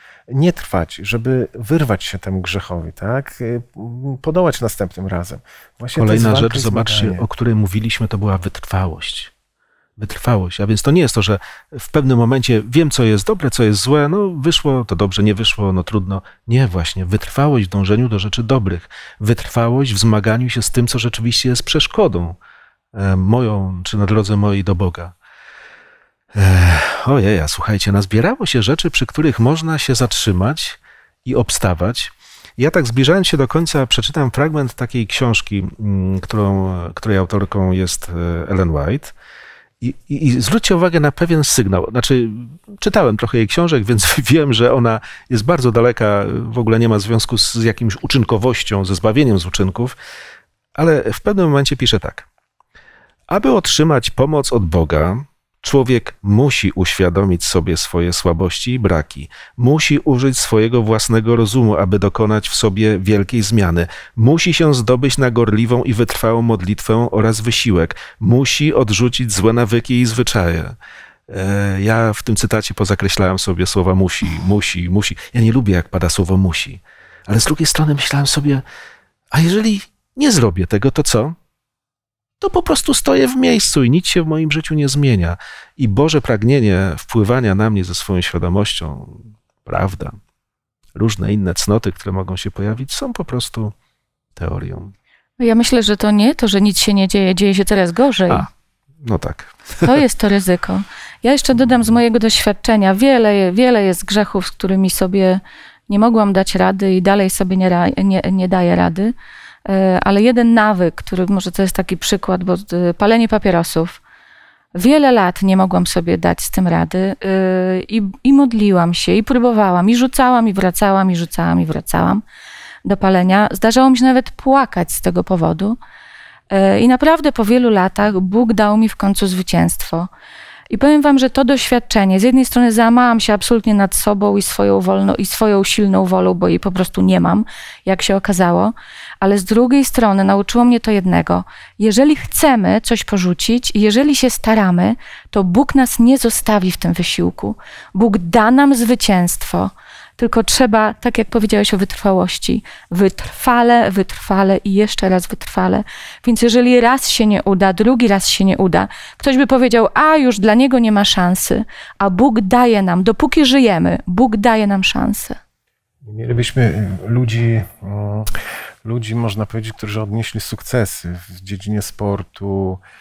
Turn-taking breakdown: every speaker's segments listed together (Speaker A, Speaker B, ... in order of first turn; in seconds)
Speaker A: 0.3-7.2, 166.0-172.8
Speaker B: 5.9-9.3, 10.0-22.4, 22.9-25.1, 26.3-39.1, 39.8-50.0, 50.7-52.2, 53.3-70.8, 71.3-78.6, 79.3-81.3, 82.4-90.2, 90.9-93.7, 94.3-94.9, 99.0-99.8, 101.6-101.9
Speaker C: 95.4-98.5, 99.8-109.1, 109.6-114.0, 114.7-122.2, 122.8-125.8, 126.5-130.1, 130.7-165.4